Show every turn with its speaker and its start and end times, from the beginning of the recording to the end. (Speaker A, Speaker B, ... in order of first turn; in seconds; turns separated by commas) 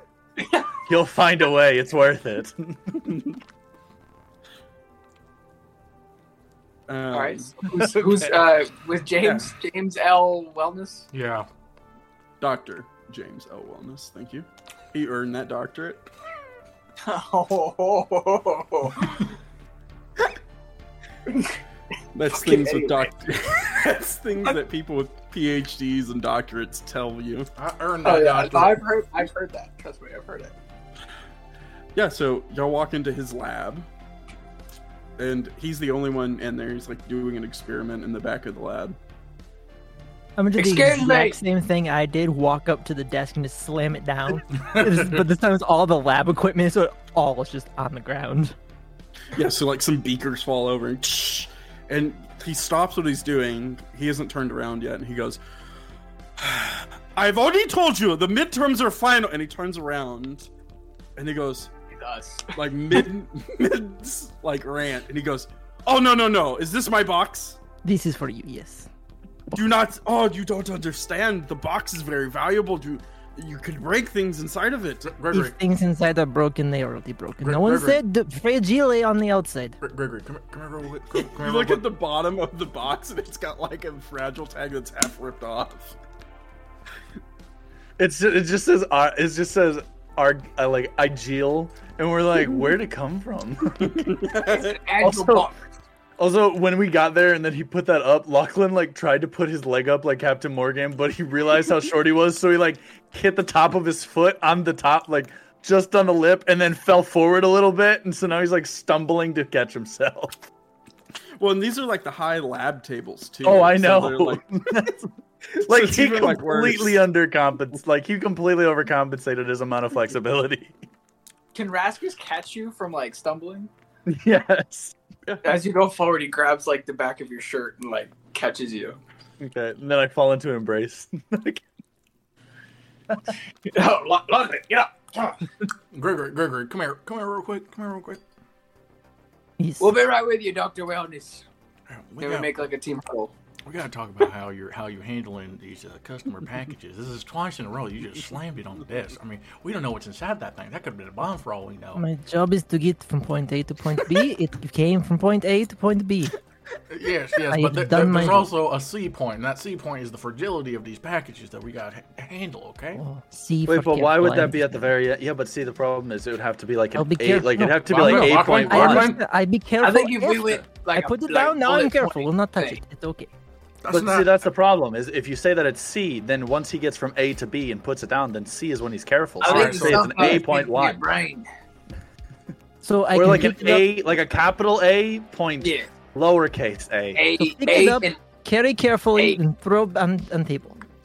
Speaker A: 0.4-0.7, Speaker B: 0.8-3.1, Speaker C: 6.9-7.6, Speaker A: 7.1-11.1, Speaker C: 9.2-9.5, Speaker D: 11.1-11.5, Speaker C: 12.4-16.1, Speaker A: 17.0-19.3, Speaker C: 22.1-27.5, Speaker A: 22.3-23.1, Speaker D: 27.6-28.8, Speaker A: 28.0-30.5, Speaker C: 31.9-33.9, Speaker C: 35.2-39.0, Speaker E: 40.4-48.5, Speaker A: 40.6-41.4, Speaker D: 44.5-45.2, Speaker C: 49.3-55.4, Speaker C: 56.4-60.5, Speaker C: 61.2-61.7, Speaker A: 61.9-62.5, Speaker C: 62.5-67.6, Speaker E: 67.8-68.9, Speaker C: 69.5-75.1, Speaker D: 75.1-75.6, Speaker E: 75.3-79.8, Speaker D: 77.4-78.0, Speaker D: 79.8-81.8, Speaker C: 81.2-86.0, Speaker B: 88.0-94.1, Speaker C: 93.7-94.8, Speaker A: 94.4-95.6, Speaker B: 95.0-95.5, Speaker B: 96.2-110.4, Speaker C: 111.4-114.6, Speaker B: 113.4-115.1, Speaker C: 115.5-117.0, Speaker B: 115.7-120.8, Speaker A: 121.5-123.7, Speaker B: 124.1-125.0, Speaker C: 125.3-125.5, Speaker A: 125.4-129.0, Speaker B: 129.4-131.6, Speaker A: 133.7-135.4, Speaker D: 135.9-138.2, Speaker E: 139.6-140.0, Speaker A: 139.8-141.4, Speaker D: 141.9-142.5, Speaker A: 142.2-143.3, Speaker D: 143.7-152.0, Speaker E: 152.0-156.3, Speaker D: 156.9-163.0, Speaker E: 157.5-158.5, Speaker E: 162.9-164.7, Speaker B: 163.7-169.2, Speaker E: 166.9-173.3, Speaker D: 167.8-169.2, Speaker C: 168.1-168.6, Speaker A: 169.8-172.8, Speaker D: 173.8-174.3, Speaker B: 173.9-181.0, Speaker A: 179.4-181.5, Speaker D: 179.4-180.4, Speaker E: 182.8-183.9, Speaker B: 183.1-187.2, Speaker A: 185.6-185.9, Speaker A: 187.2-188.2, Speaker E: 187.4-190.8